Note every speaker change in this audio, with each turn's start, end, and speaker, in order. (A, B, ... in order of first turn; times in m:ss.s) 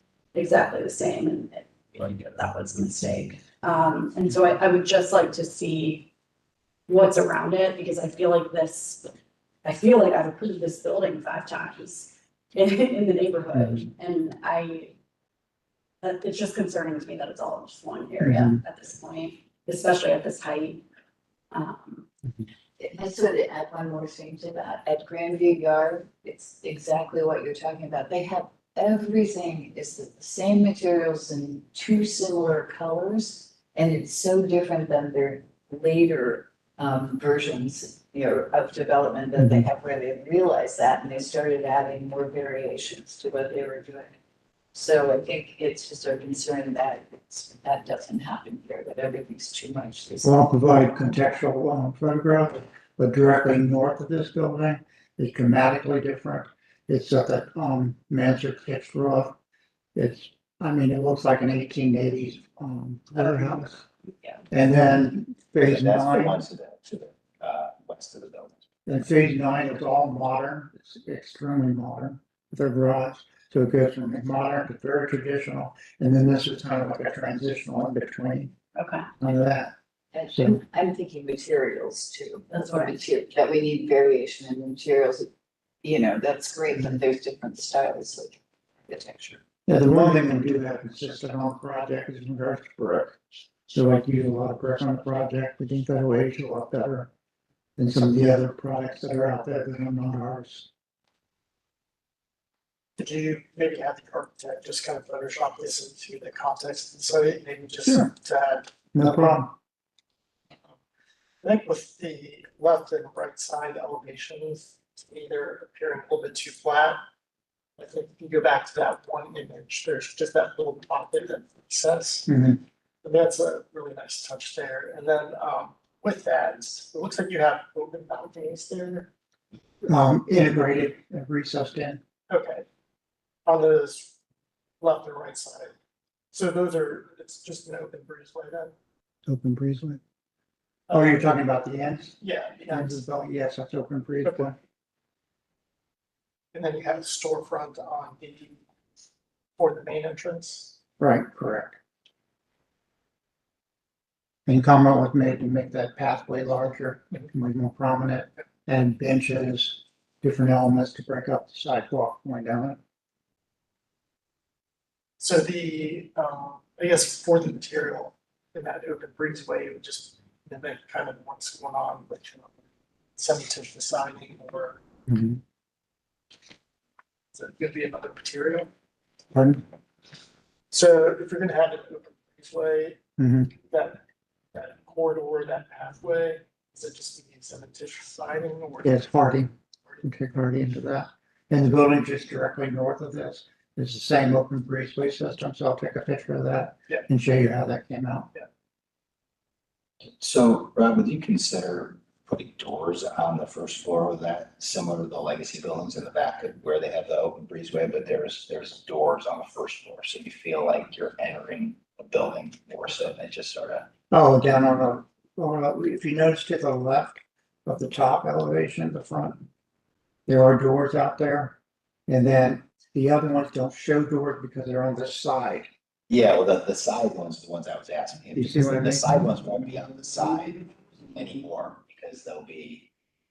0:00.3-0:06.1 A
0:06.9-0:09.1 A
0:09.6-0:14.9 A
0:13.5-0:13.8 B
0:16.0-0:20.8 A
0:18.2-0:18.6 B
0:21.5-0:22.1 A
0:22.8-0:44.2 C
0:39.4-0:39.7 B
0:44.7-0:50.3 C
0:50.2-0:59.4 B
0:59.9-1:03.8 B
1:04.5-1:06.4 B
1:05.6-1:08.6 D
1:08.8-1:18.5 B
1:18.7-1:19.1 A
1:19.2-1:19.7 B
1:20.1-1:25.3 C
1:20.3-1:20.6 B
1:22.5-1:23.0 A
1:25.8-1:29.4 C
1:29.6-1:37.1 B
1:37.8-1:40.7 B
1:43.0-1:48.7 E
1:48.9-1:49.5 B
1:51.4-1:57.0 E
1:57.8-2:02.3 E
2:02.3-2:02.6 B
2:03.0-2:09.1 E
2:09.8-2:12.0 B
2:12.3-2:12.6 E
2:13.4-2:14.1 E
2:14.8-2:15.7 E
2:16.3-2:18.7 E
2:19.3-2:20.0 B
2:20.9-2:24.6 B
2:22.3-2:22.8 E
2:26.5-2:28.6 E
2:29.6-2:30.7 E
2:31.0-2:31.8 B
2:34.4-2:42.8 B
2:45.2-2:52.5 E
2:53.2-2:54.8 E
2:55.1-2:55.4 B
2:57.3-2:58.7 E
2:59.3-2:59.6 B
3:00.7-3:03.0 E
3:03.2-3:03.5 B
3:04.5-3:08.9 E
3:08.8-3:09.5 B
3:10.0-3:18.3 B
3:20.2-3:33.9 D
3:34.1-3:39.5 B
3:40.3-3:45.7 B
3:46.1-3:52.9 D
3:48.3-3:49.1 B